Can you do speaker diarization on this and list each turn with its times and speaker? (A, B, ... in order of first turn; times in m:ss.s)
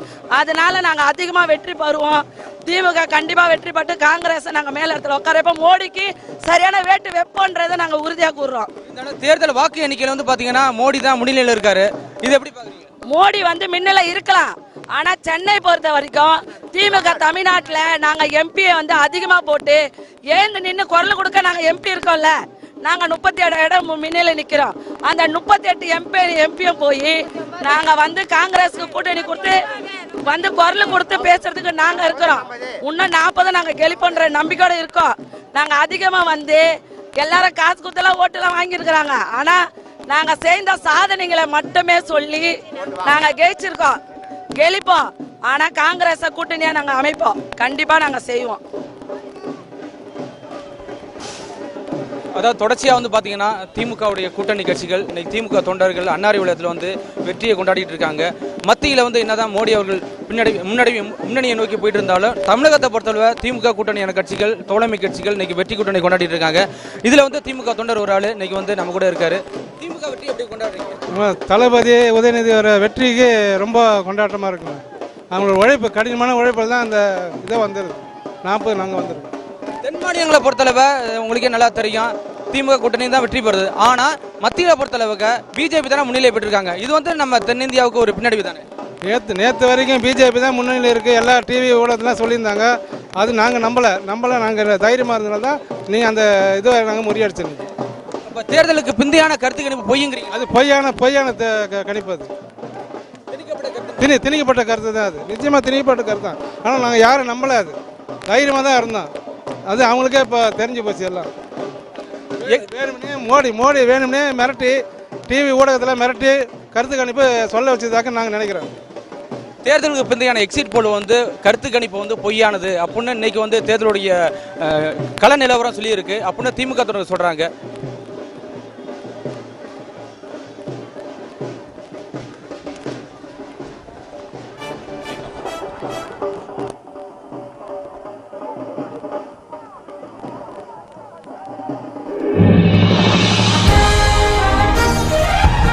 0:00.3-0:08.7 A
0:08.9-0:12.9 B
0:13.1-0:22.3 A
0:22.8-0:29.6 A
0:30.2-0:36.6 A
0:37.2-0:44.0 A
0:44.6-0:48.6 A
0:52.3-1:11.0 B
1:11.1-1:19.3 C
1:19.8-1:28.6 B
1:29.0-1:37.6 C
1:38.2-1:40.4 B
1:40.3-1:42.3 C
1:43.3-1:44.1 B
1:44.0-1:47.7 C
1:48.3-1:49.1 C
1:49.7-1:51.3 C
1:52.4-1:52.7 B
1:52.4-1:58.7 C
1:59.6-2:07.5 B